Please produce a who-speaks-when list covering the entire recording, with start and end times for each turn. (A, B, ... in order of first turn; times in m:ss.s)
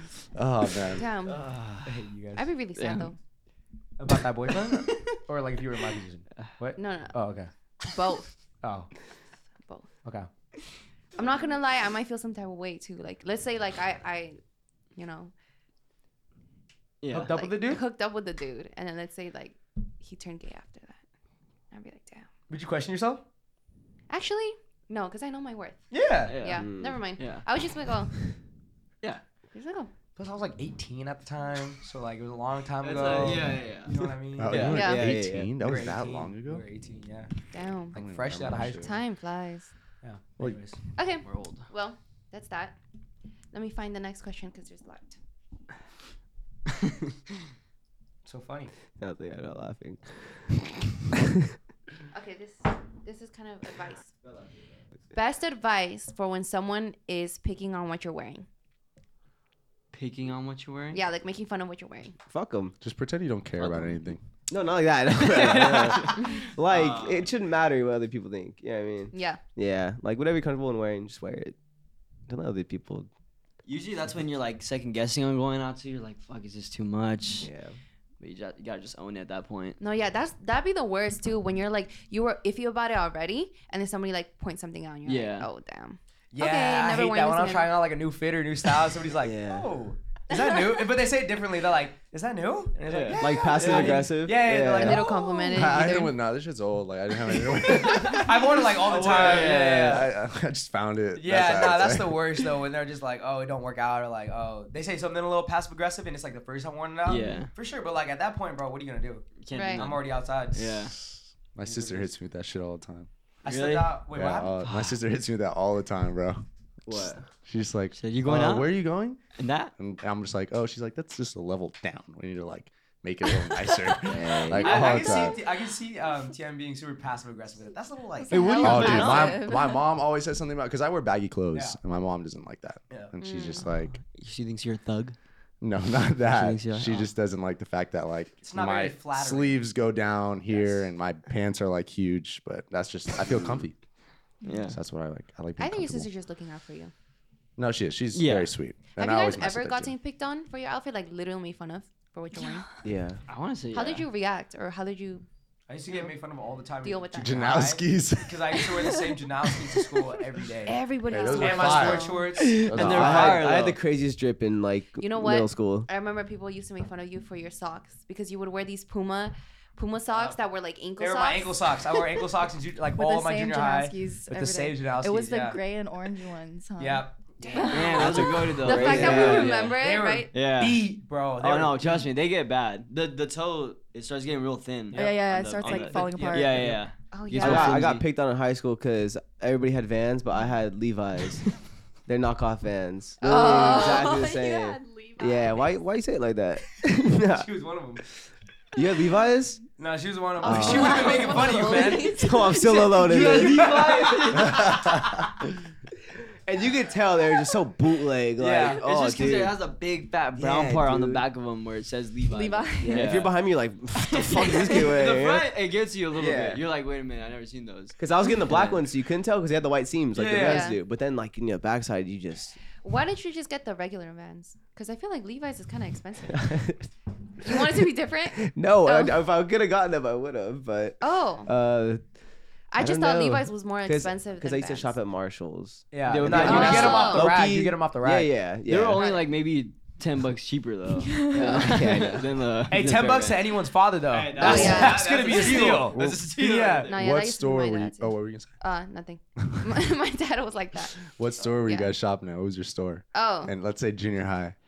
0:00.3-0:01.0 A
0:00.9-0:01.5 B
0:01.2-0:01.9 C
0:01.8-0:02.5 D
0:02.4-0:03.2 B
0:02.7-0:03.1 C
0:04.0-0:07.5 D
0:04.5-0:05.1 C
0:06.8-0:07.2 B
0:07.8-0:08.3 B
0:08.6-0:08.9 D
0:11.1-0:14.4 B
0:14.9-0:15.3 B
0:17.0-0:17.3 C
0:17.1-0:17.8 D
0:17.3-0:21.0 B
0:21.7-0:22.3 B
0:22.5-0:23.2 D
0:24.1-0:25.8 B
0:25.9-0:26.4 D
0:26.3-0:27.5 C
0:26.4-0:28.1 B
0:26.5-0:27.0 E
0:29.5-0:29.9 B
0:30.2-0:34.8 D
0:32.8-0:34.0 C
0:34.4-0:36.6 A
0:34.5-0:35.5 E
0:34.7-0:35.2 B
0:35.6-0:37.3 D
0:37.5-0:38.0 B
0:37.9-0:38.9 D
0:38.0-0:38.9 A
0:38.7-0:39.7 B
0:40.0-0:40.8 D
0:41.0-0:42.8 B
0:41.2-0:41.7 C
0:43.5-0:45.2 B
0:48.2-0:48.7 D
0:48.9-0:51.4 E
0:52.1-0:54.1 B
0:55.1-0:58.5 B
0:59.9-1:01.0 C
1:00.9-1:02.2 B
1:02.3-1:02.8 E
1:02.8-1:04.2 A
1:03.6-1:04.0 C
1:04.5-1:11.5 E
1:05.1-1:07.3 C
1:09.1-1:09.4 B
1:12.3-1:13.1 E
1:13.6-1:17.5 C
1:17.4-1:17.8 E
1:18.2-1:19.8 C
1:19.8-1:27.7 B
1:25.0-1:25.5 C
1:26.3-1:35.2 D
1:29.2-1:29.7 E
1:32.9-1:34.1 C
1:33.2-1:35.1 E
1:34.8-1:36.1 B
1:35.5-1:38.3 A
1:37.5-1:38.2 C
1:37.9-1:40.0 D
1:38.9-1:40.0 C
1:39.0-1:40.0 E
1:39.0-1:42.4 A
1:41.2-1:50.8 D
1:47.0-1:47.5 C
1:49.4-1:51.0 C
1:49.5-1:49.9 B
1:51.0-1:53.1 A
1:51.6-1:52.1 D
1:53.4-1:54.8 D
1:53.5-1:54.0 C
1:54.1-1:56.4 A
1:56.9-1:57.3 E
1:56.9-1:57.1 C
1:57.4-1:59.2 A
1:57.9-1:58.8 C
1:59.4-1:59.7 C
1:59.8-2:05.4 A
2:04.0-2:04.9 E
2:04.5-2:09.4 D
2:08.3-2:09.3 B
2:08.3-2:09.8 F
2:08.6-2:14.0 A
2:11.5-2:11.8 D
2:13.2-2:13.7 B
2:14.1-2:15.2 C
2:15.6-2:23.8 A
2:16.3-2:17.1 C
2:18.4-2:19.6 D
2:20.5-2:20.8 D
2:24.4-2:24.8 C
2:24.7-2:26.1 A
2:25.6-2:26.9 B
2:27.6-2:29.9 A
2:28.1-2:28.5 C
2:29.0-2:32.7 B
2:32.8-2:33.2 E
2:33.3-2:34.1 C
2:33.7-2:35.2 B
2:35.7-2:40.8 D
2:36.8-2:37.6 B
2:37.1-2:38.9 A
2:40.6-2:42.3 B
2:41.1-2:42.1 A
2:41.3-2:43.3 D
2:42.5-2:43.8 C
2:42.6-2:45.9 E
2:42.6-2:43.4 A
2:45.0-2:51.8 B
2:50.1-2:50.4 D
2:51.0-2:55.6 D
2:52.9-2:58.6 F
2:56.8-2:57.2 D
2:57.4-3:00.3 B
2:57.6-2:59.8 C
2:58.0-2:59.6 E
2:58.8-3:02.0 D
3:00.3-3:00.9 C
3:01.4-3:08.0 C
3:04.9-3:06.8 D
3:04.9-3:06.7 F
3:07.1-3:07.9 B
3:07.4-3:11.4 E
3:12.1-3:17.5 E
3:13.2-3:14.1 B
3:13.2-3:15.8 F
3:17.3-3:18.0 D
3:18.7-3:19.6 E
3:19.8-3:25.2 D
3:20.4-3:21.4 E
3:20.5-3:23.0 F
3:20.5-3:21.6 B
3:22.0-3:23.8 E
3:23.0-3:25.0 C
3:24.4-3:25.0 A
3:26.4-3:29.6 E
3:28.4-3:28.8 D
3:28.6-3:33.3 C
3:30.4-3:31.2 E
3:32.2-3:33.1 F
3:32.8-3:35.5 E
3:33.9-3:38.9 C
3:34.5-3:34.7 F
3:36.1-3:36.6 E
3:38.0-3:42.6 E
3:40.1-3:40.7 D
3:40.4-3:40.8 B
3:42.8-3:46.6 B
3:46.3-3:46.9 E
3:47.4-3:49.2 B
3:47.5-3:52.0 E
3:51.0-3:51.5 B
3:52.7-3:55.0 B
3:52.8-3:59.0 E
3:55.9-3:58.3 D
3:56.0-3:57.1 C
3:56.3-3:57.3 B
3:58.6-4:03.6 C
3:58.9-3:59.2 B
4:01.0-4:01.6 F
4:01.3-4:02.4 E
4:02.7-4:06.9 D
4:04.1-4:07.0 C
4:04.3-4:05.6 B
4:05.9-4:06.2 A
4:06.9-4:11.1 B
4:06.9-4:08.5 A
4:11.1-4:14.5 A
4:11.6-4:11.9 B
4:13.1-4:13.5 B